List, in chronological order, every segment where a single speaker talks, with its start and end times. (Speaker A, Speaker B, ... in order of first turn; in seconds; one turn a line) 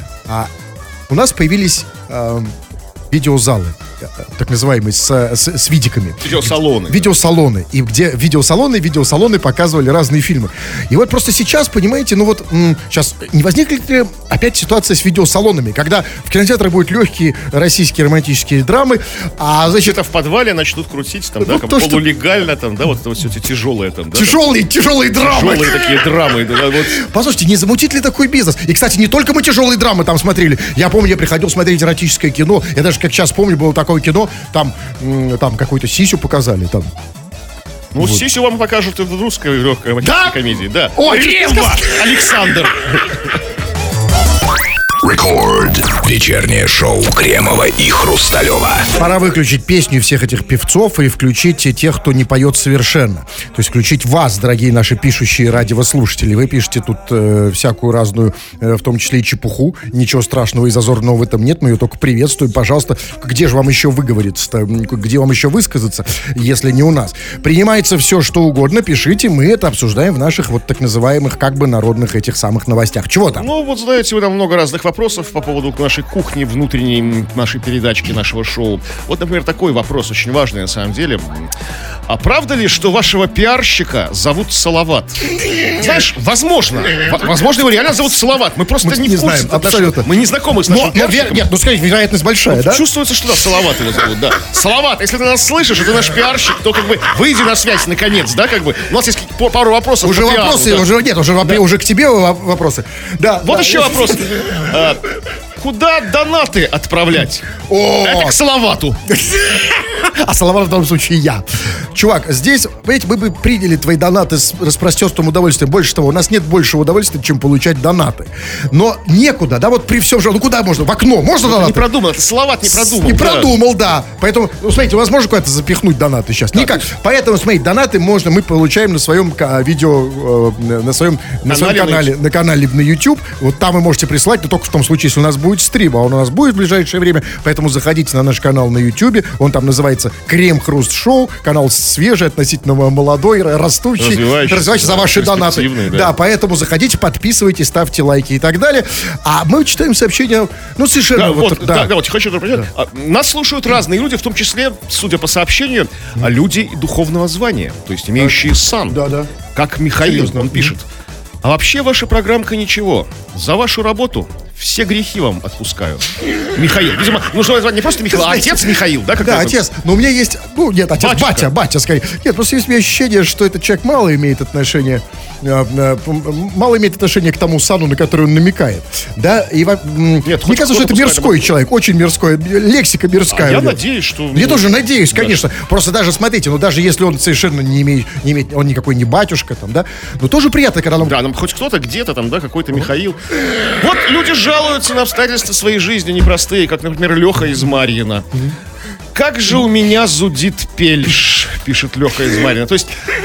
Speaker A: 1.1-2.6
Speaker A: 3.1-20.0
Speaker B: 6.2-7.1
Speaker B: 19.7-24.4
Speaker A: 21.4-22.0
Speaker A: 24.1-25.8
Speaker B: 25.2-27.0
Speaker A: 26.9-36.9
Speaker B: 37.9-43.2
Speaker A: 40.0-40.4
Speaker A: 41.0-42.1
Speaker C: 45.0-48.9
Speaker A: 49.0-73.5
Speaker B: 73.4-81.5
Speaker B: 82.1-91.4
Speaker A: 88.8-90.1
Speaker A: 90.7-92.8
Speaker B: 92.5-100.9
Speaker A: 100.0-104.6
Speaker B: 103.4-105.1
Speaker B: 105.6-107.5
Speaker A: 107.7-108.4
Speaker B: 108.0-109.0
Speaker A: 109.1-121.8
Speaker B: 121.4-123.5
Speaker A: 122.6-151.9
Speaker B: 126.5-126.8
Speaker B: 131.5-132.1
Speaker B: 144.0-146.1
Speaker B: 151.2-159.0
Speaker A: 158.2-159.3
Speaker B: 159.5-160.8
Speaker A: 160.0-160.7
Speaker B: 161.4-169.6
Speaker A: 168.1-168.7
Speaker A: 169.2-183.8
Speaker B: 171.0-171.5
Speaker B: 180.2-181.5
Speaker B: 183.3-185.4
Speaker A: 184.3-191.2
Speaker B: 191.0-198.3
Speaker B: 199.2-202.9